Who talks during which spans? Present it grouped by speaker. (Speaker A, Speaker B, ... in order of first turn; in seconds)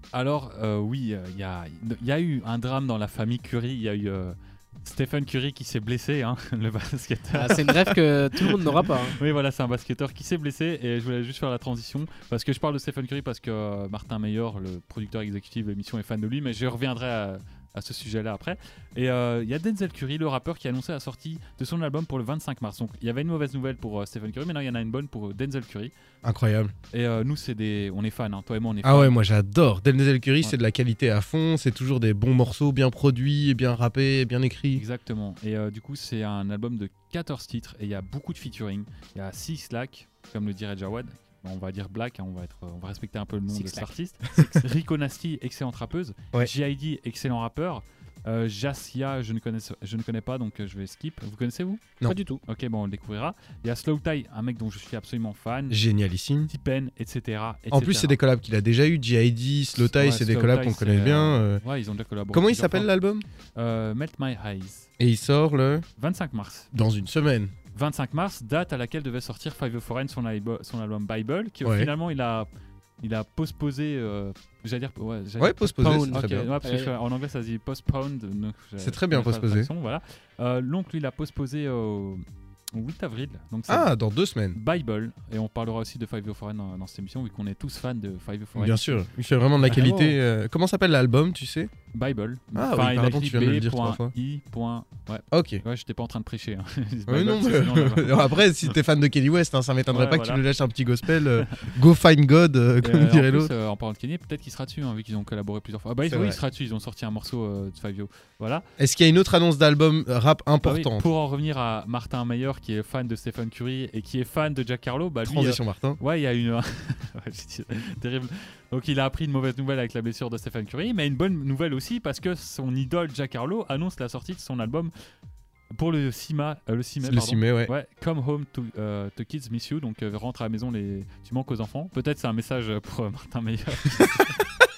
Speaker A: 0.1-7.8, 9.1-25.9, 26.9-29.2, 34.7-51.8, 52.5-55.8, 56.5-58.2, 59.8-62.9, 63.5-64.9, 66.0-66.8, 67.7-72.5, 73.0-82.2, 82.8-83.9, 84.5-89.1, 89.6-90.2, 91.9-98.7, 99.9-100.4, 101.1-101.7, 102.8-108.6, 110.6-124.9, 125.8-134.3
Speaker B: 7.3-9.2, 43.5-43.9, 52.0-52.4, 75.8-76.9
Speaker C: 26.2-26.7, 28.8-34.8, 55.7-56.5, 57.7-61.6, 62.3-63.2, 65.0-65.8, 66.7-67.5, 71.6-71.9, 75.4-76.5, 78.8-79.7, 83.7-84.6, 88.5-91.7, 92.5-94.1, 95.3-95.6, 97.1-103.5, 106.0-106.4, 108.8-111.1, 115.2-116.0, 127.0-127.7